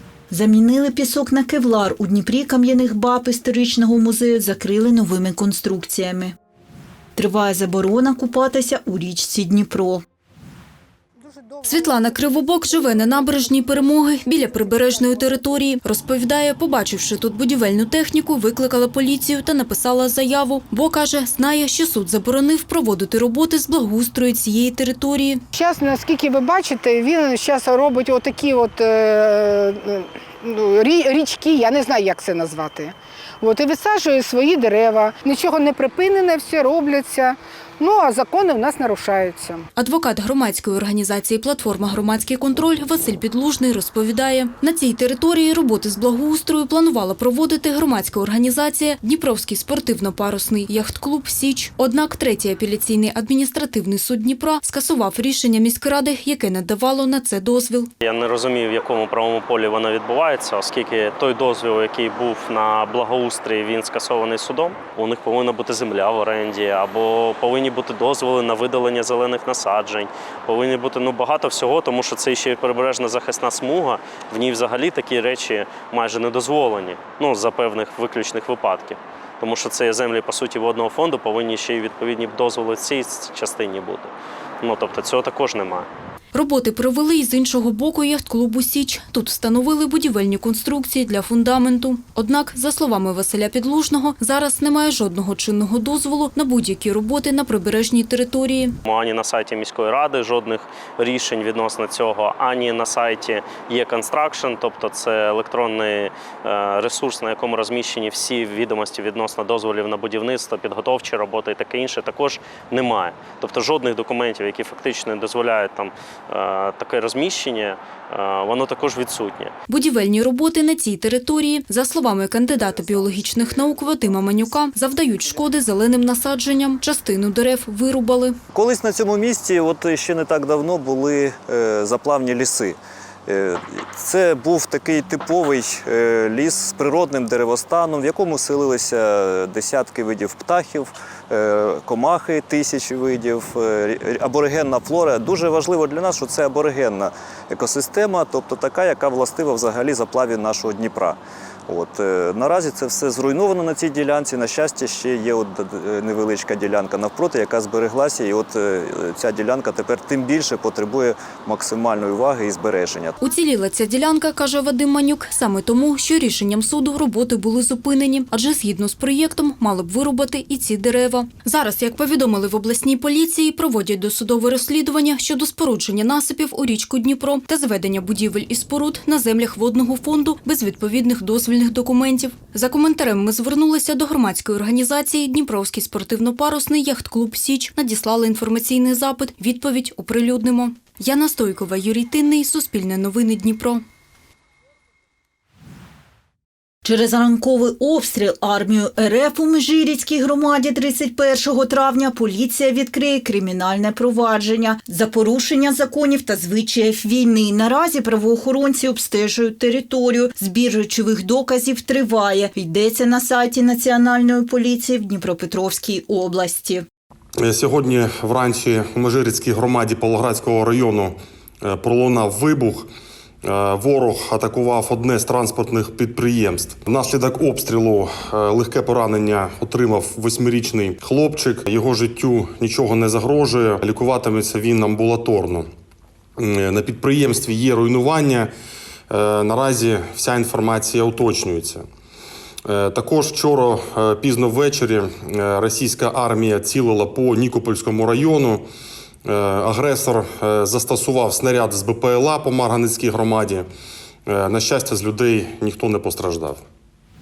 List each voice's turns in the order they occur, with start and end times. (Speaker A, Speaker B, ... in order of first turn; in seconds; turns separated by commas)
Speaker A: 0.3-6.3, Speaker A: 7.2-10.0, Speaker B: 11.6-25.4, Speaker C: 25.5-39.6, Speaker B: 39.8-57.9, Speaker D: 58.0-85.9, Speaker B: 86.3-98.8, Speaker D: 98.8-119.5, Speaker B: 119.7-128.4, Speaker E: 128.5-151.2, Speaker E: 151.7-163.2, Speaker B: 163.2-193.8, Speaker A: 196.8-216.8, Speaker F: 217.4-222.9, Speaker F: 223.4-235.7, Speaker F: 236.4-238.5, Speaker F: 239.1-241.8, Speaker F: 242.7-248.6, Speaker F: 249.2-253.7, Speaker F: 254.3-256.6